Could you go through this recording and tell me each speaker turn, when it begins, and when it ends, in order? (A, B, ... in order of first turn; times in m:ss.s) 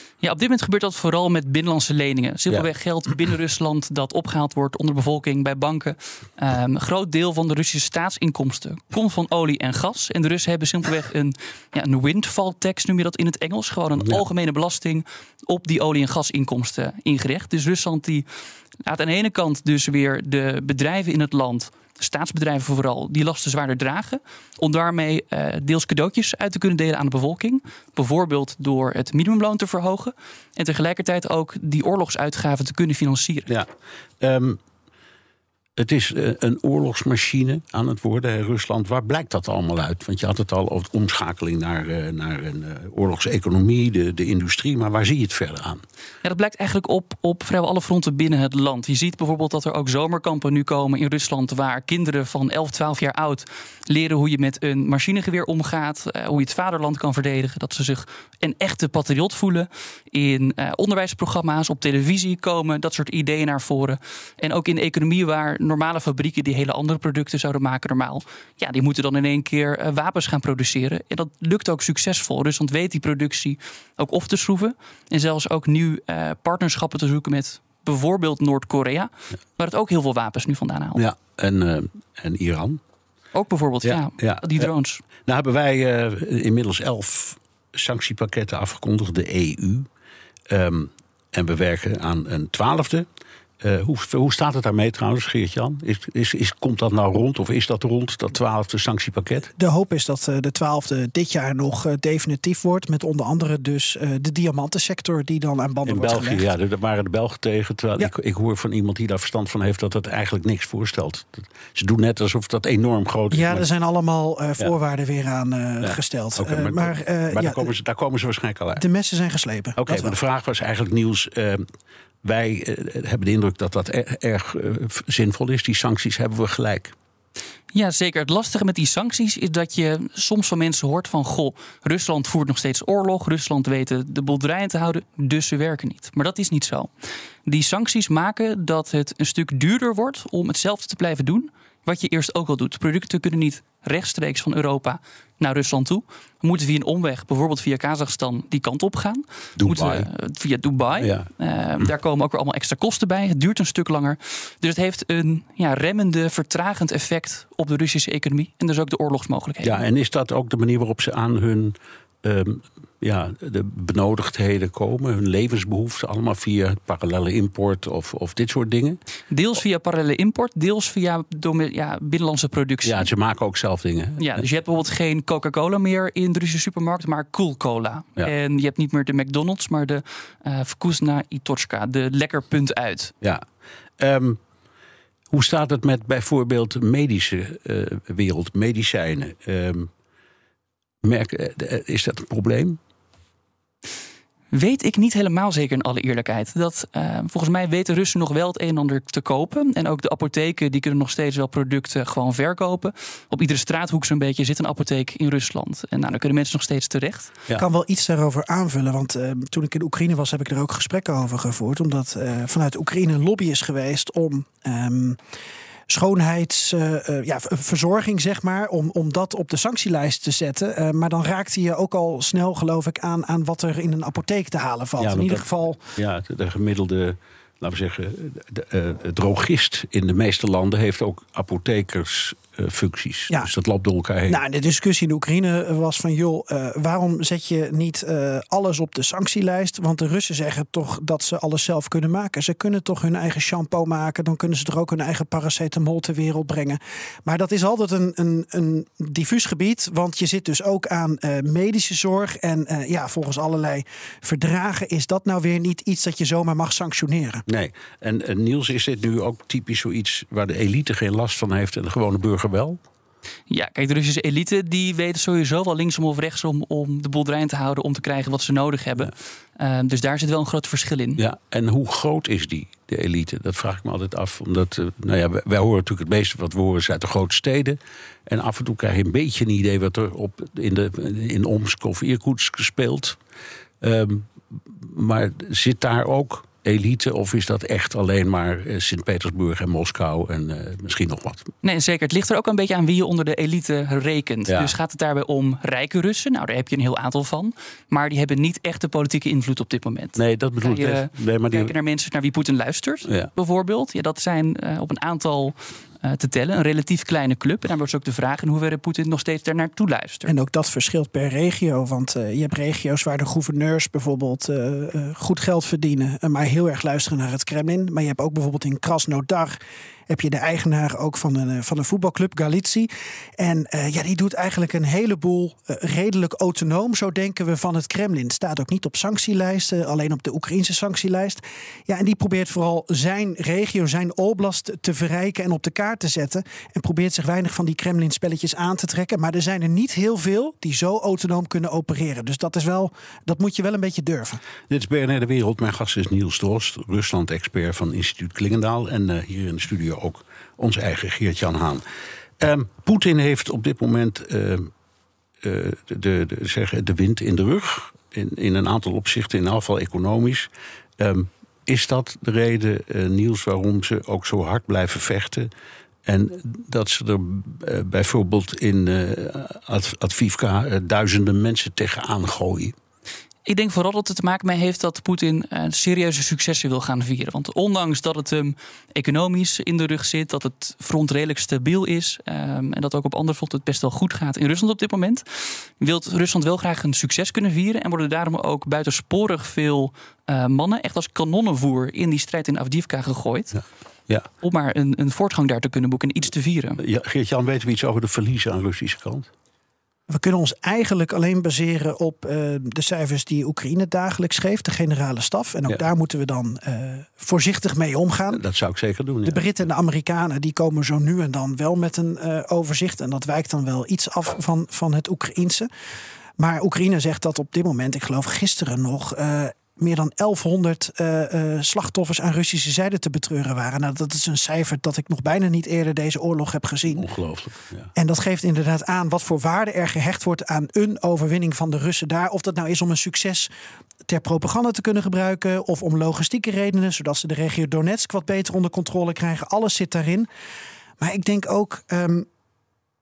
0:00.2-0:18.3 A
0:18.8-0:33.5 A
0:34.2-0:34.6 B
0:35.8-0:45.8 B
0:46.2-1:21.0 A
1:21.0-1:22.8 B
1:23.3-1:25.0 A
1:23.8-1:29.9 B
1:30.5-1:33.1 B
1:33.6-1:39.5 B
1:39.6-1:46.5 C
1:45.9-1:53.7 B
1:53.3-1:57.7 C
1:55.8-1:58.8 B
1:58.8-2:00.2 C
1:59.8-2:01.7 B
2:02.2-2:06.9 B
2:07.7-2:16.9 A
2:17.5-2:39.8 A
2:29.6-2:30.1 B
2:31.0-2:31.3 B
2:39.6-2:49.0 B
2:49.3-2:53.1 A
2:52.8-2:54.4 B
2:54.2-3:03.1 A
3:04.0-3:04.4 B
3:05.3-3:09.9 B
3:11.0-3:12.8 B
3:14.5-3:27.3 A
3:27.6-3:35.2 C
3:35.9-3:45.8 C
3:45.0-3:54.4 B
3:54.3-4:17.4 C
4:17.5-4:22.8 B
4:23.5-4:31.2 A
4:31.2-4:43.2 B
4:43.8-4:51.5 B
4:51.6-5:10.3 A
5:00.2-5:01.7 B
5:10.3-5:19.6 C
5:20.1-5:44.4 C
5:44.7-5:51.8 B
5:52.4-5:54.7 B
5:55.4-6:00.5 B
6:01.0-6:05.5 B
6:06.1-6:12.8 B
6:13.5-6:25.2 A
6:25.8-6:33.5 A
6:33.5-6:34.3 B
6:34.4-6:36.8 A
6:36.8-6:39.3 B
6:40.1-6:48.4 C
6:48.3-6:49.4 B
6:49.2-6:55.7 C
6:56.4-7:07.1 C
7:06.9-7:07.9 B
7:08.0-7:13.5 C
7:14.1-7:20.3 C
7:21.0-7:22.3 C